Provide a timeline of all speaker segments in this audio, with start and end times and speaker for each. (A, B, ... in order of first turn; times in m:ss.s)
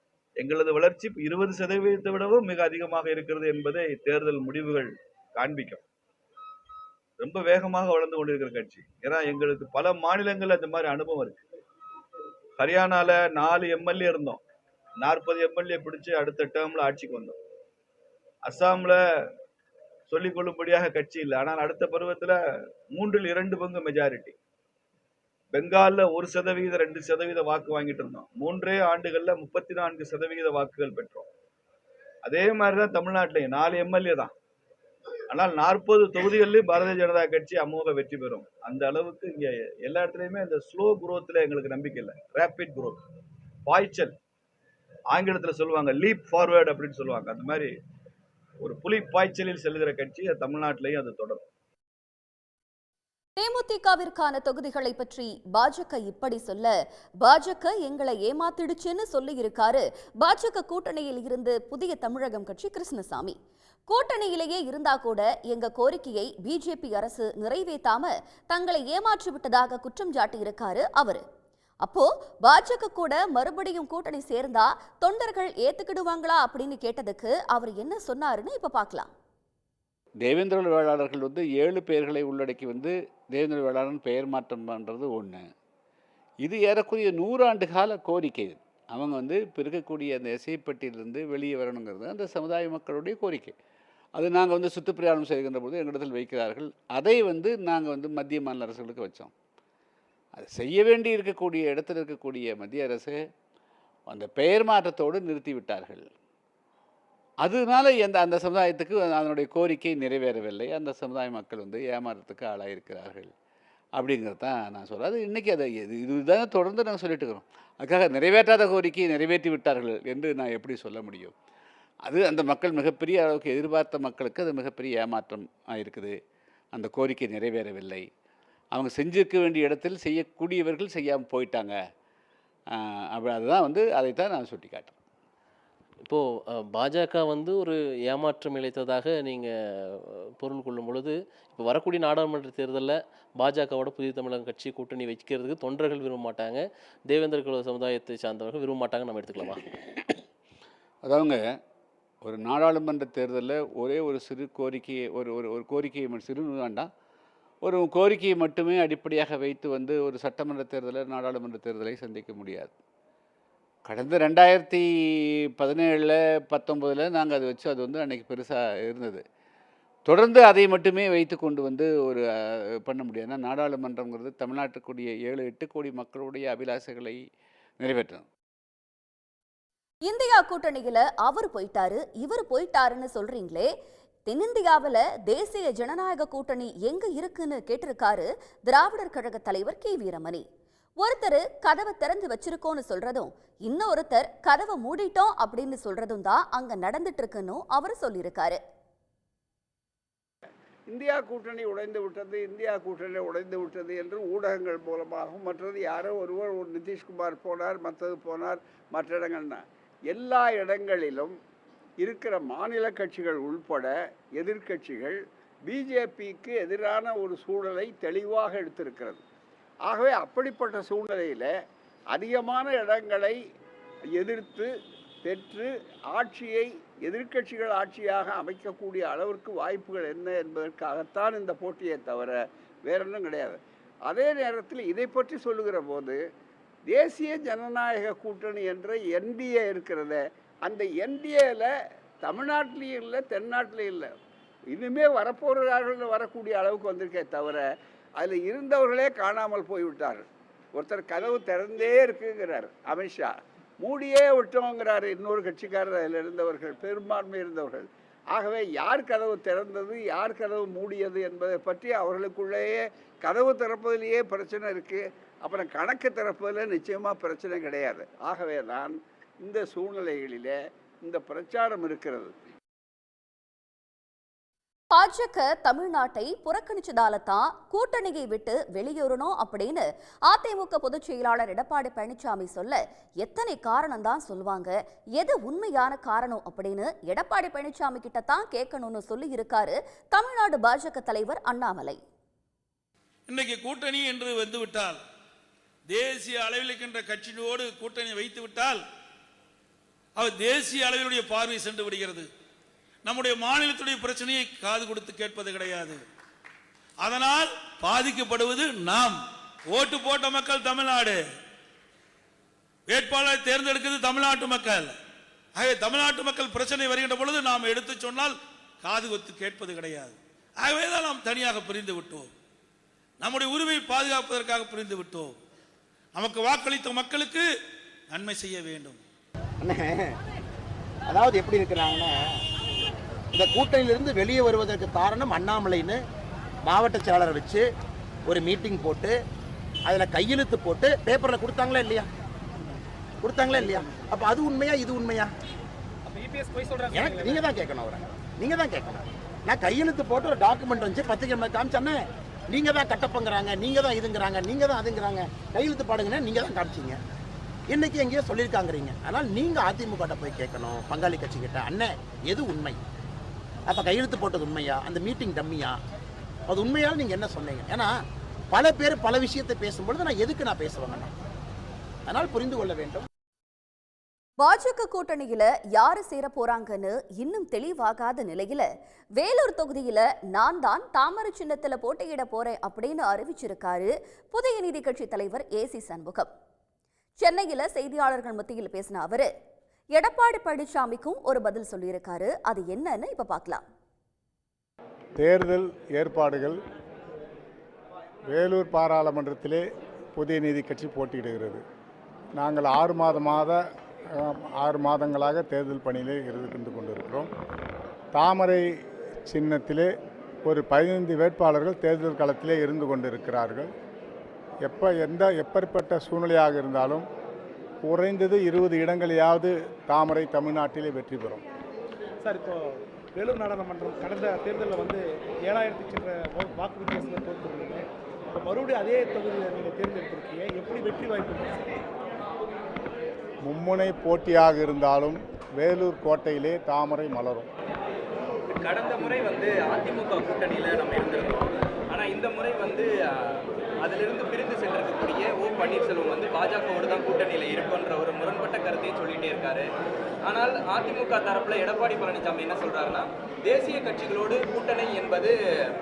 0:00.4-0:05.8 A
0:07.2-0:11.4 A
0:12.6-0:14.4 A
0:15.0-0:17.4 A
0:18.4-0:19.0 A
0:20.1-0:22.4 A
0:22.9-0:24.3 A
0:25.5-0:31.3 A
0:32.2-0:34.3 A
0:35.3-0:43.0 A
0:43.6-0:44.1 A
0:45.1-0:47.7 A
0:48.6-0:51.4 A
0:53.4-1:11.2 B
1:11.8-1:19.1 B
1:20.2-1:25.5 C
1:26.4-1:33.5 C
1:34.2-1:39.3 C
1:40.4-1:43.2 C
1:44.1-1:46.1 C
1:47.4-1:53.3 C
1:54.0-2:01.3 C
2:02.0-2:06.2 C
2:06.7-2:08.1 C
2:08.7-2:11.8 C
2:12.7-2:15.0 C
2:16.0-2:29.6 D
2:31.0-2:31.6 C
2:32.2-2:36.9 C
2:37.6-2:42.7 C
2:43.8-2:49.2 C
2:50.1-2:52.2 C
2:52.8-2:57.2 C
2:57.8-2:58.2 C
3:00.0-3:03.7 B
3:04.2-3:10.4 B
3:11.0-3:18.6 B
3:20.9-3:31.3 E
3:32.0-3:39.2 E
3:39.9-3:41.5 E
3:42.1-3:43.4 E
3:44.1-3:44.7 E
3:45.2-3:56.2 E
3:56.9-4:01.7 E
4:02.2-4:04.1 E
4:04.7-4:07.6 E
4:08.2-4:10.2 E
4:10.8-4:32.3 E
4:34.9-4:52.0 B
4:53.3-4:55.0 F
4:55.9-4:58.8 F
5:00.2-5:02.3 F
5:03.0-5:06.0 F
5:07.0-5:09.2 F
5:09.7-5:11.2 F
5:12.9-5:14.9 F
5:15.6-5:22.3 F
5:23.2-5:25.3 F
5:26.1-5:27.4 F
5:28.1-5:29.0 F
5:29.6-5:29.9 G
5:31.1-5:32.1 G
5:33.3-5:36.0 G
5:36.6-5:37.6 G
5:38.3-5:39.1 G
5:39.8-5:42.1 G
5:43.2-5:45.3 G
5:46.2-5:46.9 H
5:46.9-5:52.0 G
5:52.5-5:57.0 G
5:57.7-6:02.8 G
6:03.7-6:05.8 G
6:06.5-6:07.9 G
6:08.5-6:11.1 G
6:12.1-6:13.0 G
6:14.4-6:18.6 B
6:19.2-6:26.3 B
6:27.2-6:29.3 B
6:29.9-6:33.6 B
6:35.2-6:36.6 I
6:38.3-6:39.6 I
6:40.2-6:41.6 I
6:42.4-6:47.3 I
6:48.1-6:48.6 I
6:49.2-6:49.9 I
6:50.4-6:53.7 I
6:54.6-6:57.0 I
6:57.8-7:01.4 I
7:02.2-7:11.7 H
7:13.4-7:17.5 I
7:18.5-7:29.7 J
7:30.2-7:35.3 J